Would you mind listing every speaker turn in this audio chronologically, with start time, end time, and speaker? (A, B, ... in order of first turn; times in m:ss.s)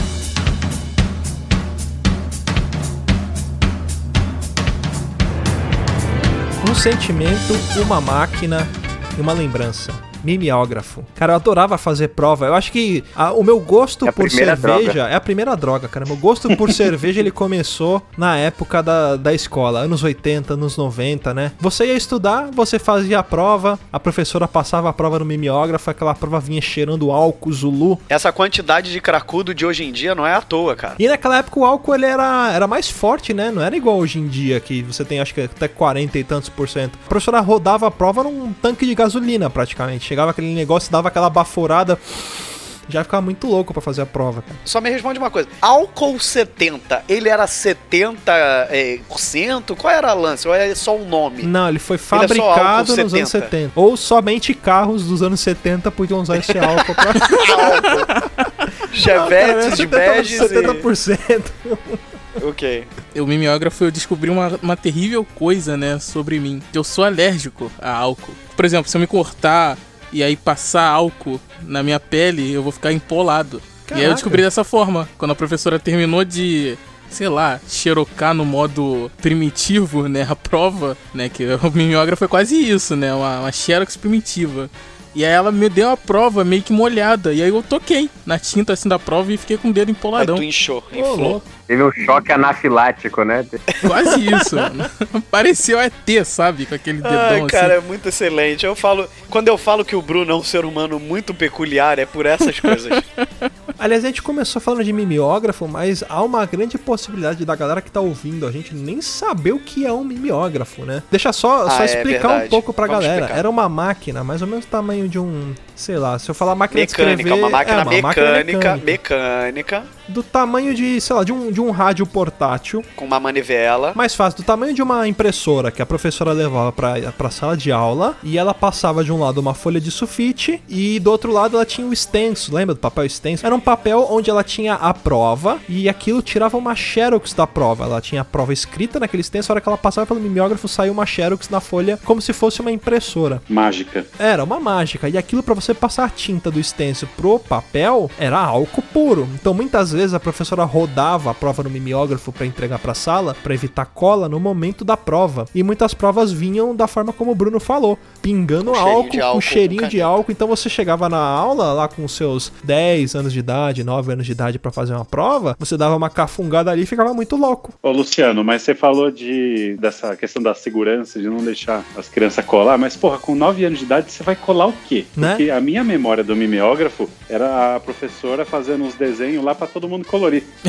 0:06.6-0:28.0 A
0:14.0-0:15.0 B
0:28.1-0:31.0 C
0:31.0-0:44.6 A
0:44.6-0:51.5 C
0:51.4-0:57.8 A
0:52.1-0:53.5 C
0:56.6-0:58.2 C
0:58.9-1:00.8 C
0:59.0-1:02.0 A
1:02.4-1:02.9 C
1:03.1-1:30.4 D
1:13.9-1:14.4 A
1:30.2-1:31.4 C
1:30.9-1:31.4 A
1:31.7-1:33.6 B
1:33.7-1:34.6 C
1:33.8-1:37.8 D
1:37.0-1:43.1 C
1:43.8-1:58.9 A
1:51.7-1:53.4 C
1:56.7-1:59.9 C
2:00.1-2:02.9 A
2:03.0-2:04.0 C
2:03.9-2:23.4 A
2:23.5-2:24.1 E
2:24.2-2:47.7 A
2:38.6-2:40.1 C
2:47.8-3:00.5 E
2:55.2-2:55.4 A